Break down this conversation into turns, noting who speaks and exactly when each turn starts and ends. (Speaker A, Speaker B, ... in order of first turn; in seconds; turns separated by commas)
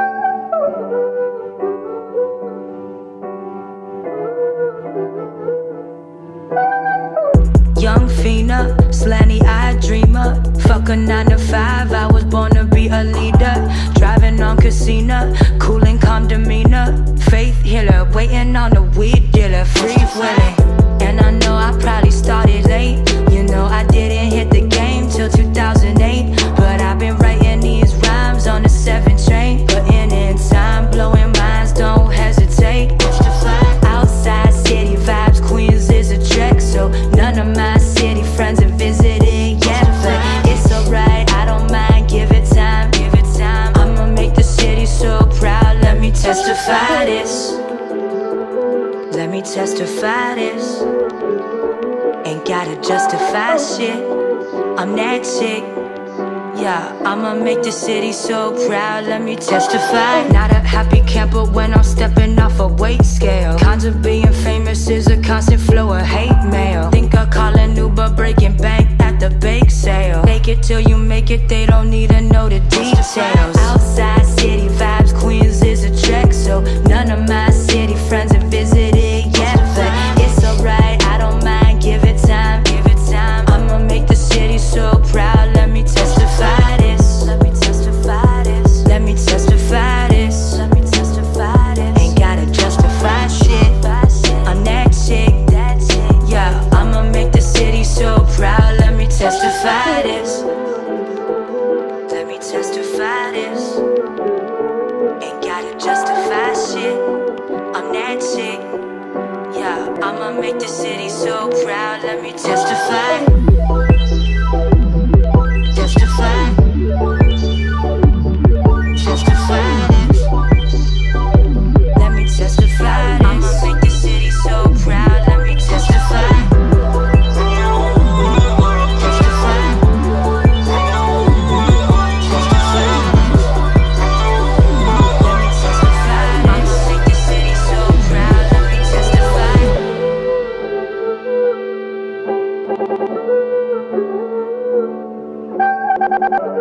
Speaker A: 7.8-47.6, Speaker A: 49.1-50.9, Speaker A: 52.2-54.1, Speaker A: 54.8-55.8, Speaker A: 56.5-100.5, Speaker A: 102.1-103.8, Speaker A: 105.2-107.1, Speaker A: 107.7-108.7, Speaker A: 109.5-113.3, Speaker A: 115.7-116.7, Speaker A: 118.9-120.2, Speaker A: 121.9-126.6, Speaker A: 128.9-130.0, Speaker A: 132.2-133.3, Speaker A: 135.0-139.8